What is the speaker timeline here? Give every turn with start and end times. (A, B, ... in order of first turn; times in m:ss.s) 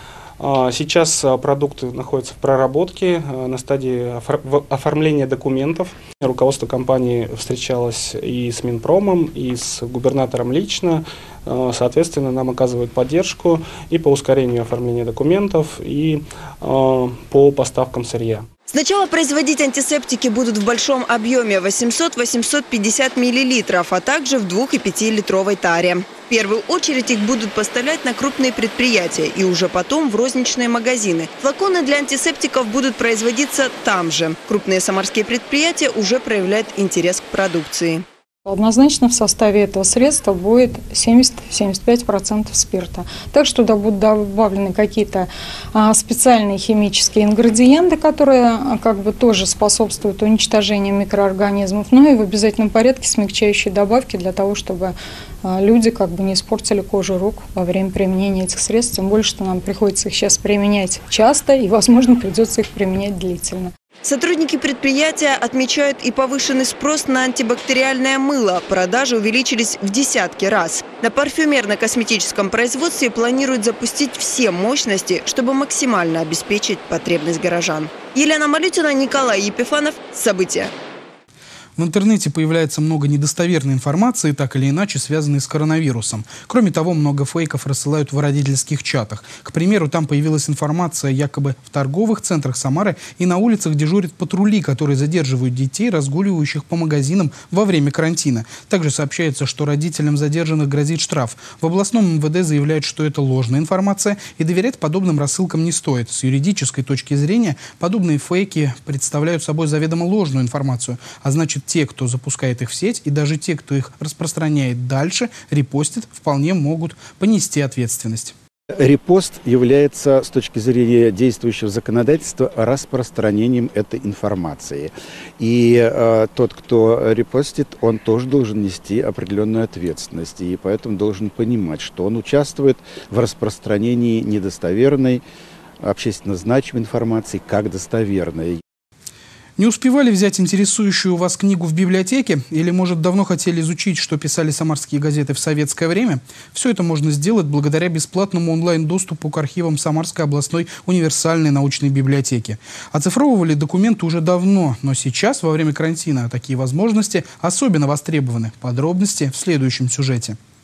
0:00.4-0:18.5 A
0:18.7-0:38.0 B
0:38.4-1:03.7 C
1:04.0-1:20.7 B
1:21.8-1:58.3 D
1:58.8-2:15.2 E
2:15.8-2:18.6 E
2:19.6-2:40.4 D